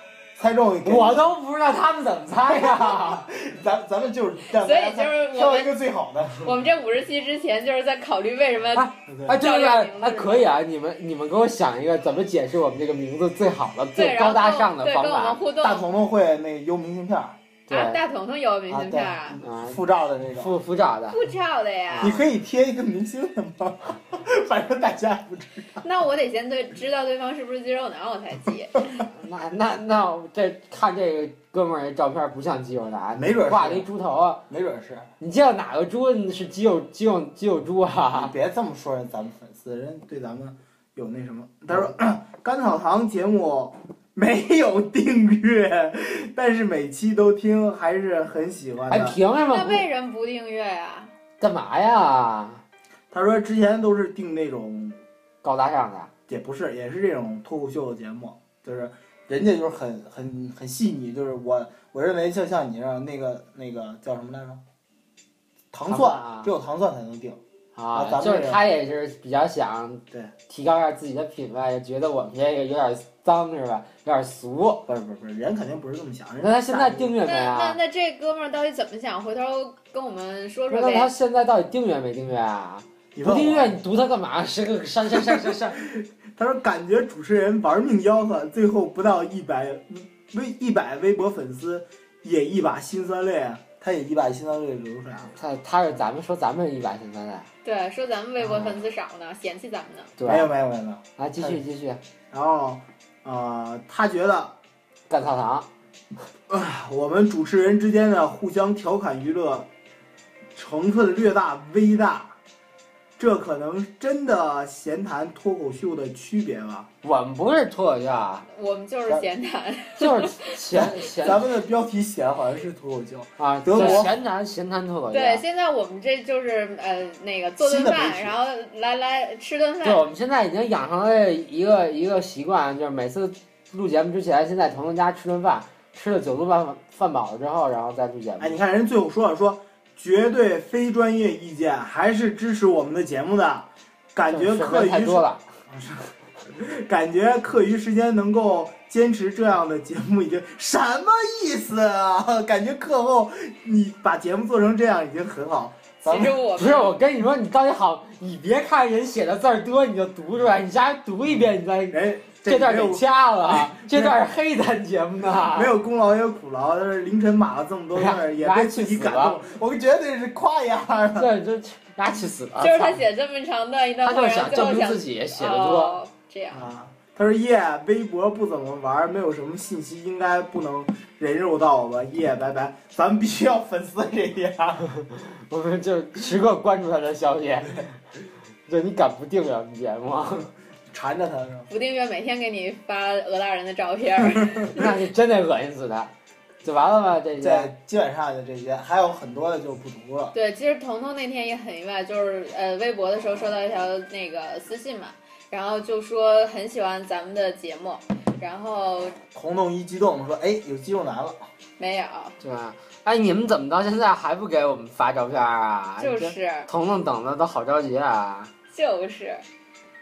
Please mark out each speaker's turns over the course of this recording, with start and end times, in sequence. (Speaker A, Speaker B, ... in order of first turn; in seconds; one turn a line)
Speaker A: 0.4-1.3
Speaker B: 0.8-3.3
Speaker A: 2.5-6.5
Speaker C: 4.5-5.7
Speaker C: 6.4-10.5
Speaker B: 8.8-15.4
Speaker A: 9.1-9.4
Speaker C: 14.0-15.9
Speaker A: 15.6-17.4
Speaker B: 17.7-18.0
Speaker C: 17.7-19.4
Speaker A: 18.7-20.5
Speaker B: 19.4-19.8
Speaker B: 20.4-21.2
Speaker C: 21.1-22.2
Speaker B: 21.9-22.2
Speaker A: 22.0-25.8
Speaker C: 25.8-29.1
Speaker B: 29.1-34.4
Speaker A: 33.1-33.9
Speaker A: 34.5-35.1
Speaker B: 35.2-38.3
Speaker A: 38.1-49.2
Speaker B: 48.9-49.9
Speaker C: 49.5-51.1
Speaker B: 51.4-52.6
Speaker A: 53.1-55.0
Speaker B: 55.4-56.1
Speaker A: 56.3-64.6
Speaker A: 65.7-67.4
Speaker B: 65.9-66.5
Speaker B: 67.8-74.9
Speaker A: 67.9-68.6
Speaker A: 74.9-77.1
Speaker B: 76.4-77.8
Speaker C: 77.2-81.1
Speaker B: 80.7-85.8
Speaker A: 83.2-83.8
Speaker A: 85.1-95.3
Speaker B: 95.4-97.5
Speaker C: 97.6-100.1
Speaker B: 100.2-100.5
Speaker A: 100.2-101.6
Speaker B: 101.2-102.0
Speaker A: 102.3-104.5
Speaker B: 105.1-105.7
Speaker A: 106.5-109.7
Speaker A: 110.5-112.4
Speaker A: 113.2-116.9
Speaker B: 117.0-118.5
Speaker C: 118.5-120.5
Speaker B: 120.0-121.4
Speaker A: 120.7-124.1
Speaker B: 123.4-125.4
Speaker C: 123.8-124.0
Speaker C: 125.1-130.0
Speaker A: 127.6-128.4
Speaker B: 129.8-138.6
Speaker A: 138.4-156.4
Speaker B: 144.3-145.4
Speaker C: 156.1-156.9
Speaker B: 156.6-165.7
Speaker A: 161.9-164.2
Speaker A: 165.5-171.3
Speaker B: 167.9-169.4
Speaker B: 171.2-173.0
Speaker C: 172.6-176.7
Speaker B: 174.0-176.0
Speaker A: 176.5-184.9
Speaker B: 184.9-187.9
Speaker B: 188.7-190.5
Speaker A: 190.9-191.7
Speaker C: 191.7-194.9
Speaker B: 194.7-196.1
Speaker B: 196.6-197.7
Speaker A: 197.4-200.3
Speaker C: 200.3-209.2
Speaker A: 209.3-211.5
Speaker C: 211.8-212.4
Speaker B: 212.4-218.5
Speaker C: 216.0-216.7
Speaker C: 218.7-219.4